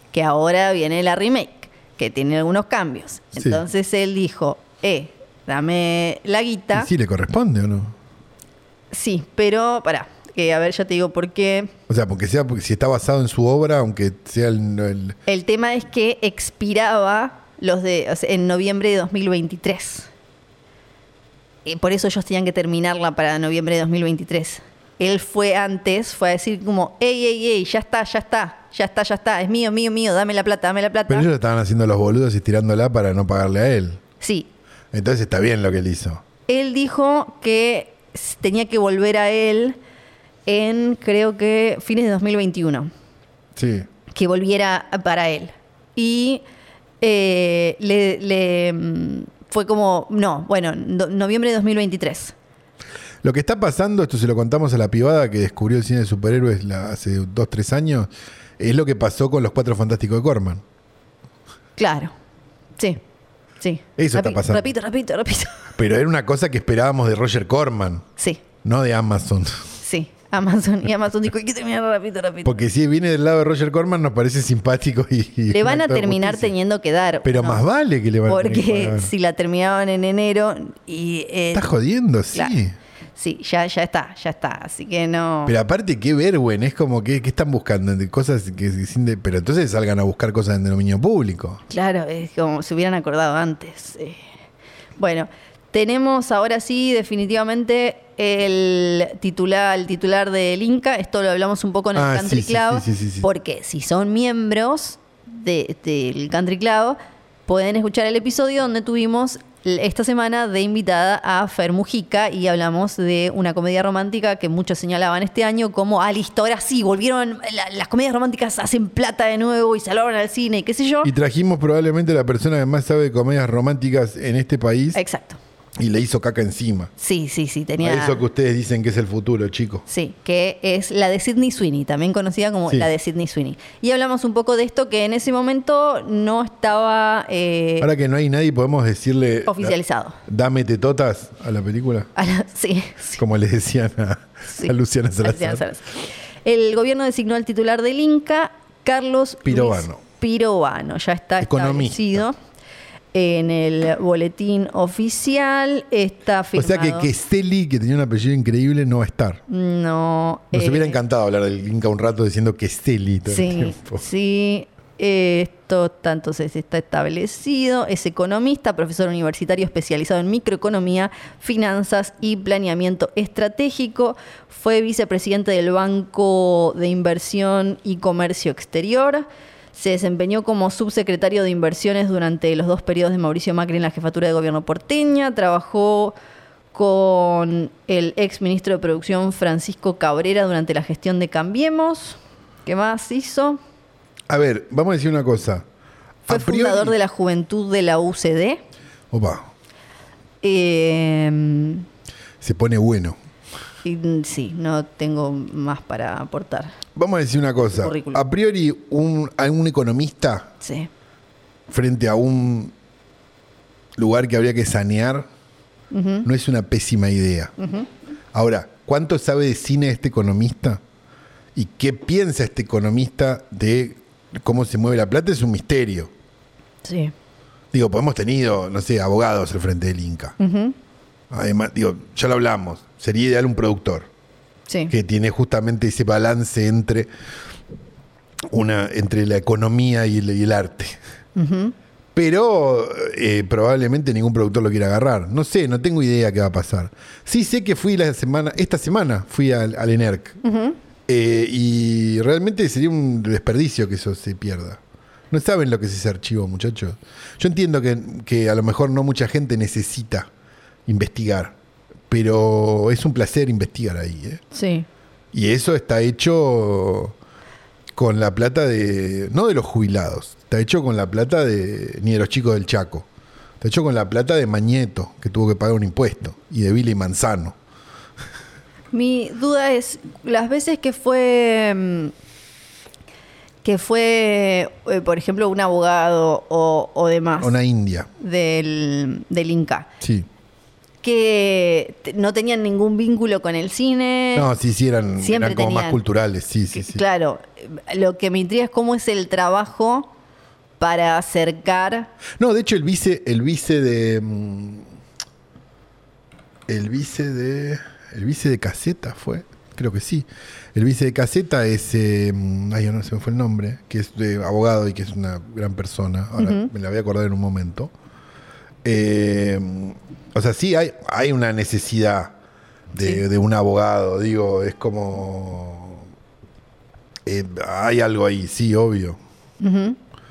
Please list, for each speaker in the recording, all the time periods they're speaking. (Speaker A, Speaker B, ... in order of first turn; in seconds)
Speaker A: 0.1-6.9, 8.9-11.7, 15.3-20.1, 21.7-31.3, 34.2-34.5, 36.5-39.8, 40.5-42.9, 44.1-46.4, 47.0-52.3, 61.8-62.1, 63.6-65.7, 69.8-72.7, 75.5-77.6, 78.3-81.7, 83.2-85.5, 91.7-94.2, 95.0-121.1, 125.0-125.4, 127.0-128.2, 129.9-137.9, 139.5-140.2, 142.2-143.2, 144.5-152.4, 153.1-157.1, 159.5-161.0, 163.3-186.2, 186.7-193.6, 196.3-198.6, 200.4-201.8, 203.8-206.8, 207.7-208.2, 210.6-210.9, 215.9-216.3, 217.6-217.9, 226.8-227.1, 230.4-230.8, 234.7-234.9, 241.4-241.7, 250.4-250.8, 264.5-264.9, 278.9-282.1, 283.6-287.6, 288.2-289.9, 291.0-294.5, 295.2-296.0, 296.7-300.1, 300.8-302.1, 316.4-316.7, 329.6-330.0
Speaker B: 3.4-3.6, 6.7-8.0, 11.9-15.2, 31.1-34.0, 34.9-36.2, 43.6-43.9, 53.2-60.6, 64.0-64.7, 65.8-68.1, 68.6-69.7, 72.4-76.5, 77.2-79.1, 81.5-82.8, 85.5-91.6, 102.0-103.3, 121.0-125.0, 125.8-126.9, 127.8-129.8, 137.8-139.8, 140.3-142.1, 143.2-145.7, 149.4-150.0, 151.4-152.2, 156.6-159.4, 160.5-164.0, 194.3-195.7, 196.3-196.9, 199.1-199.5, 202.4-203.2, 206.9-210.5, 211.7-212.7, 214.0-215.3, 216.2-217.5, 218.3-220.8, 221.6-226.1, 227.7-230.4, 231.3-234.1, 234.9-237.1, 238.5-241.0, 242.2-250.4, 251.1-260.3, 260.9-261.6, 262.1-264.4, 265.3-267.2, 267.9-273.1, 273.6-277.6, 287.4-288.1, 290.0-290.3, 294.4-297.0, 302.4-304.9, 306.7-317.9, 318.8-322.4, 322.9-326.1, 327.3-329.2